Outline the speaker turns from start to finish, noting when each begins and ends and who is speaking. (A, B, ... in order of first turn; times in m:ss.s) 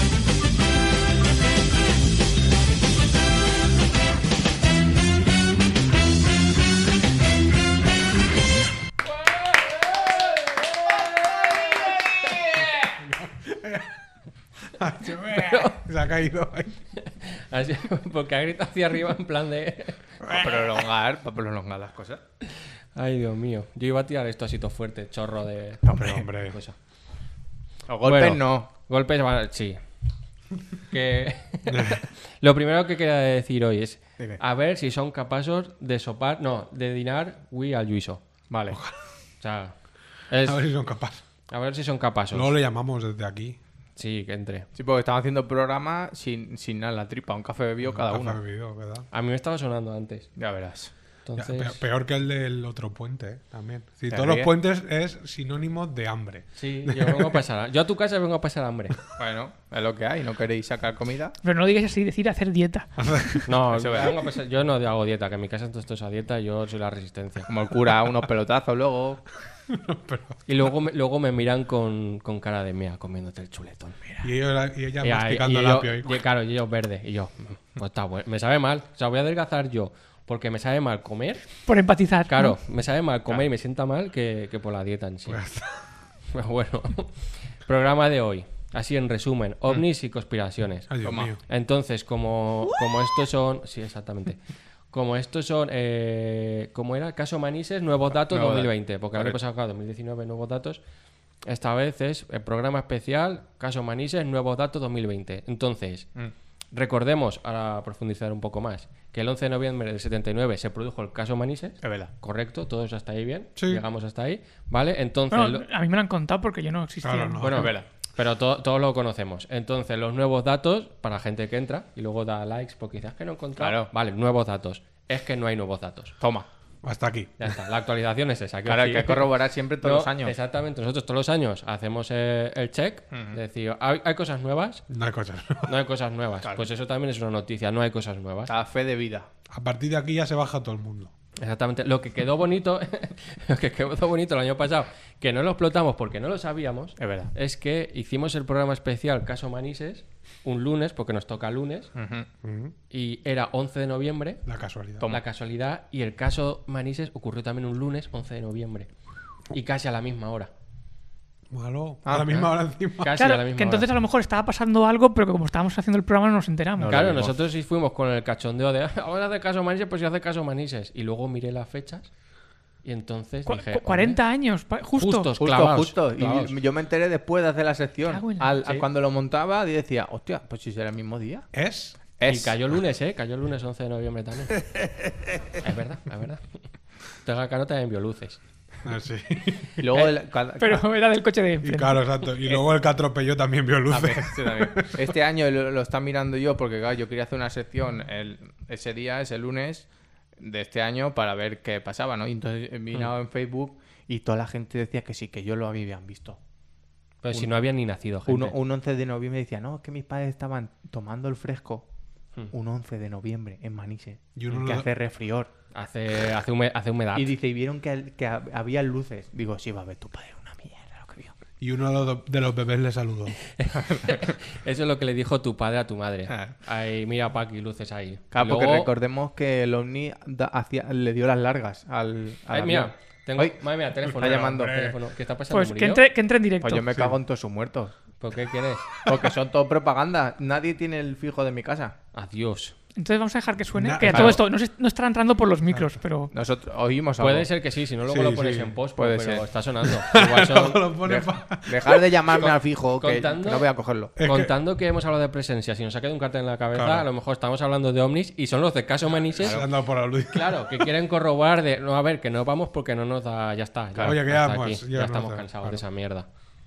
0:09.0-0:12.9 A
0:13.0-0:13.9 B
0:14.7-0:16.8 B
0:15.2-0:15.8 A
0:17.0-0:20.0 A
0:20.2-0:20.8 B
0:20.3-0:22.2 C
0:22.4-0:26.7 A
0:25.8-0:26.2 C
0:26.0-0:26.6 B
0:27.9-0:28.7 C
0:28.0-0:29.8 A
0:30.9-0:38.2 A
0:31.7-0:32.0 B
0:38.5-0:38.8 C
0:38.7-0:39.0 B
0:39.4-0:39.7 A
0:40.3-0:40.6 A
0:40.4-0:41.2 B
0:41.5-0:42.5 A
0:42.3-0:43.6 B
0:44.0-0:44.7 A
0:44.7-0:48.4 C
0:47.9-0:49.1 B
0:49.1-0:50.3 A
0:50.4-0:50.9 C
0:51.2-0:51.8 A
0:51.4-0:57.4 B
0:54.1-0:54.5 C
0:56.6-0:59.0 A
0:59.2-1:01.4 C
1:01.4-1:02.9 D
1:03.0-1:03.6 B
1:03.4-1:07.5 A
1:03.7-1:04.1 C
1:07.5-1:09.2 C
1:09.7-1:10.7 B
1:10.4-1:14.3 A
1:14.2-1:16.3 B
1:15.0-1:21.4 A
1:21.6-1:22.6 D
1:22.3-1:25.4 A
1:25.3-1:25.8 B
1:26.3-1:30.9 A
1:30.9-1:31.4 B
1:31.0-1:31.3 C
1:31.4-1:34.4 A
1:34.9-1:40.8 A
1:38.3-1:39.4 C
1:41.4-1:46.1 A
1:46.7-1:55.6 A
1:51.8-1:52.1 C
1:53.6-1:53.8 B
1:55.3-1:57.4 D
1:57.0-1:57.8 B
1:57.4-2:06.1 A
1:57.5-1:57.8 C
2:03.6-2:03.9 C
2:06.2-2:06.5 C
2:06.8-2:07.5 B
2:07.4-2:14.8 A
2:08.6-2:10.3 C
2:13.1-2:13.4 C
2:14.9-2:15.7 B
2:15.6-2:18.5 A
2:18.5-2:19.3 C
2:19.5-2:21.1 B
2:21.4-2:31.9 A
2:27.0-2:27.3 C
2:31.9-2:32.3 C
2:32.4-2:32.7 B
2:32.9-2:34.4 A
2:34.4-2:35.1 B
2:35.1-2:38.9 A
2:39.5-2:40.5 A
2:41.5-2:43.2 B
2:42.0-2:42.4 C
2:43.0-2:43.9 A
2:43.1-2:47.1 D
2:46.8-2:47.3 C
2:46.9-2:52.1 A
2:52.8-2:54.2 A
2:53.5-2:55.3 D
2:55.0-2:56.5 A
2:55.4-3:01.5 C
2:58.1-2:58.5 D
3:01.5-3:02.0 B
3:02.2-3:02.5 C
3:02.2-3:04.6 A
3:05.6-3:06.4 A
3:07.2-3:08.4 A
3:08.8-3:09.8 B
3:09.8-3:10.8 C
3:10.6-3:12.0 D
3:11.6-3:15.1 B
3:13.9-3:19.8 C
3:20.4-3:26.4 C
3:27.2-3:28.5 A
3:28.3-3:31.8 C
3:32.5-3:35.5 C
3:34.4-3:34.9 B
3:35.7-3:37.3 A
3:37.1-3:41.3 C
3:41.6-3:43.4 B
3:43.6-3:48.9 A
3:43.8-3:44.3 C
3:46.3-3:46.6 C
3:48.3-3:53.6 C
3:52.5-3:56.0 A
3:54.0-3:54.9 B
3:54.2-3:54.9 C
3:55.5-3:57.0 D
3:56.6-3:57.9 C
3:58.2-3:58.9 A
3:59.0-4:01.9 C
4:02.1-4:02.7 A
4:03.0-4:06.3 D
4:03.7-4:04.4 B
4:04.1-4:04.4 C
4:06.3-4:07.5 C
4:07.2-4:10.8 A
4:08.1-4:08.7 B
4:09.0-4:09.4 C
4:09.8-4:12.2 B
4:11.0-4:14.1 C
4:12.4-4:13.7 A
4:14.2-4:14.5 B
4:14.2-4:19.6 A
4:16.7-4:17.1 B
4:19.4-4:20.9 B
4:20.3-4:26.3 A
4:24.0-4:25.8 B